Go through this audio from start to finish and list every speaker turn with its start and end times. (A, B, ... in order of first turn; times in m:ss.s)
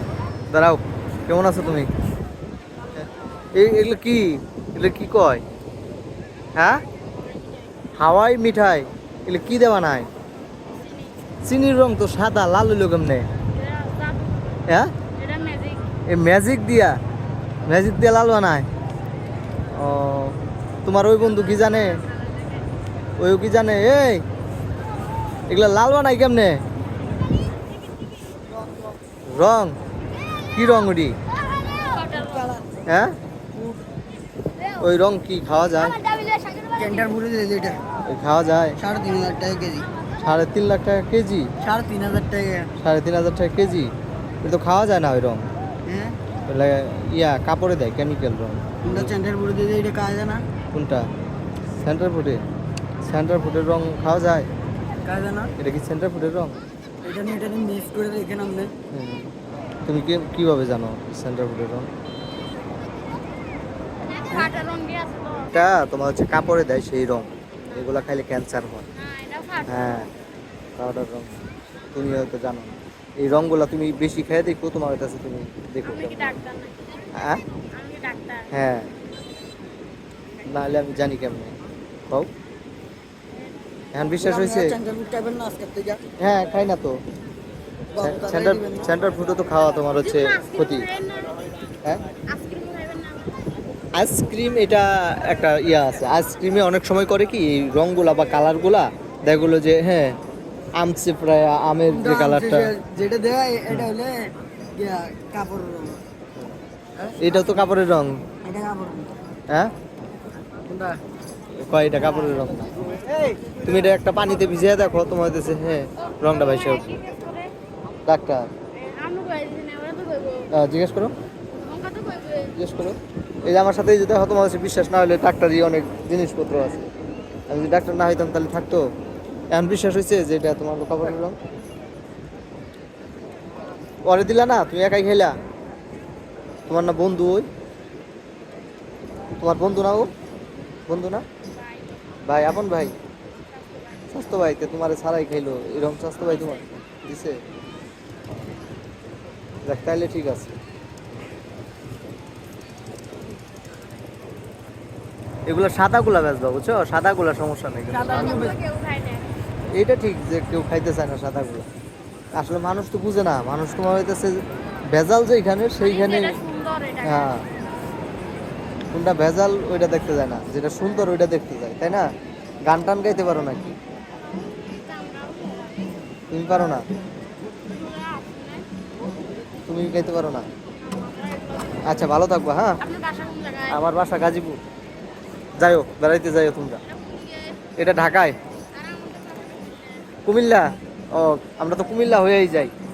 0:00.5-0:01.9 A
0:03.6-0:05.4 A
0:06.6-0:06.8 A
0:07.2-0:07.8 B
0:08.0-0:10.1 A
0:10.7-0:11.2 B
0:11.4-0:13.3 A
0:13.5-0:16.0 B
0:14.7-0:14.9 A
0:16.1-0:17.0 A
0:17.7-0:18.7 A
0:19.7-0:22.0 A
0:23.2-0:24.2 A
0:25.5-0:26.6 A
0:29.3-0:29.8 A
0:30.5-0:31.2 A
0:31.9-0:32.7 C
0:32.9-0:33.2 A
0:33.5-0:33.8 C
0:34.8-0:36.2 A
0:36.2-0:36.6 B
0:36.7-0:37.8 C
0:38.1-0:38.8 A
0:38.8-0:39.9 C
0:40.2-0:41.5 A
0:41.6-0:42.7 C
0:42.8-0:45.5 A
0:45.9-0:46.2 C
0:46.5-0:49.1 A
0:48.8-0:50.4 C
0:50.7-0:51.1 A
0:51.8-0:52.4 A
0:53.0-0:54.5 A
0:55.0-0:55.5 C
0:55.6-0:56.6 A
0:57.0-0:58.7 C
0:58.9-0:59.3 A
0:59.9-1:01.9 A
1:04.1-1:05.5 B
1:05.5-1:08.8 A
1:09.0-1:10.1 B
1:09.7-1:10.1 A
1:10.8-1:11.4 A
1:11.9-1:16.4 A
1:15.8-1:17.0 B
1:17.2-1:17.4 A
1:17.7-1:18.5 B
1:18.5-1:18.9 A
1:20.4-1:21.6 A
1:23.9-1:24.8 A
1:24.2-1:26.0 C
1:26.2-1:27.0 A
1:27.9-1:29.0 C
1:28.0-1:30.9 A
1:30.0-1:31.6 B
1:32.3-1:33.5 B
1:33.9-1:40.2 A
1:40.8-1:42.7 A
1:41.9-1:46.0 C
1:47.0-1:47.3 C
1:47.2-1:48.2 A
1:48.4-1:49.2 C
1:50.7-1:51.0 C
1:51.6-1:52.8 A
1:52.9-1:53.4 C
1:53.6-1:56.9 A
1:56.0-1:57.5 B
1:58.1-1:58.5 A
1:58.7-2:00.5 B
2:00.5-2:01.1 A
2:01.6-2:02.6 B
2:02.5-2:06.9 A
2:07.5-2:08.9 A
2:09.5-2:11.4 A
2:14.0-2:15.3 A
2:16.7-2:17.5 A
2:19.4-2:20.1 A
2:20.9-2:21.2 A
2:21.6-2:22.2 B
2:22.2-2:23.0 A
2:23.5-2:24.1 B
2:24.1-2:27.4 A
2:26.3-2:26.6 B
2:29.7-2:30.6 A
2:35.5-2:38.6 A
2:37.9-2:38.6 C
2:38.1-2:39.3 B
2:39.7-2:41.7 A
2:42.4-2:46.4 A
2:45.8-2:47.4 B
2:47.0-2:47.4 A
2:48.9-2:52.1 A
2:52.7-2:53.8 A
2:54.3-2:56.0 B
2:56.3-2:56.8 A
2:57.6-2:58.7 B
2:59.7-3:00.5 A
3:00.8-3:02.0 B
3:01.8-3:02.8 A
3:02.8-3:03.8 B
3:03.7-3:04.6 A
3:05.6-3:06.8 A
3:06.9-3:07.6 B
3:07.8-3:08.4 A
3:08.7-3:10.2 B
3:10.2-3:12.7 A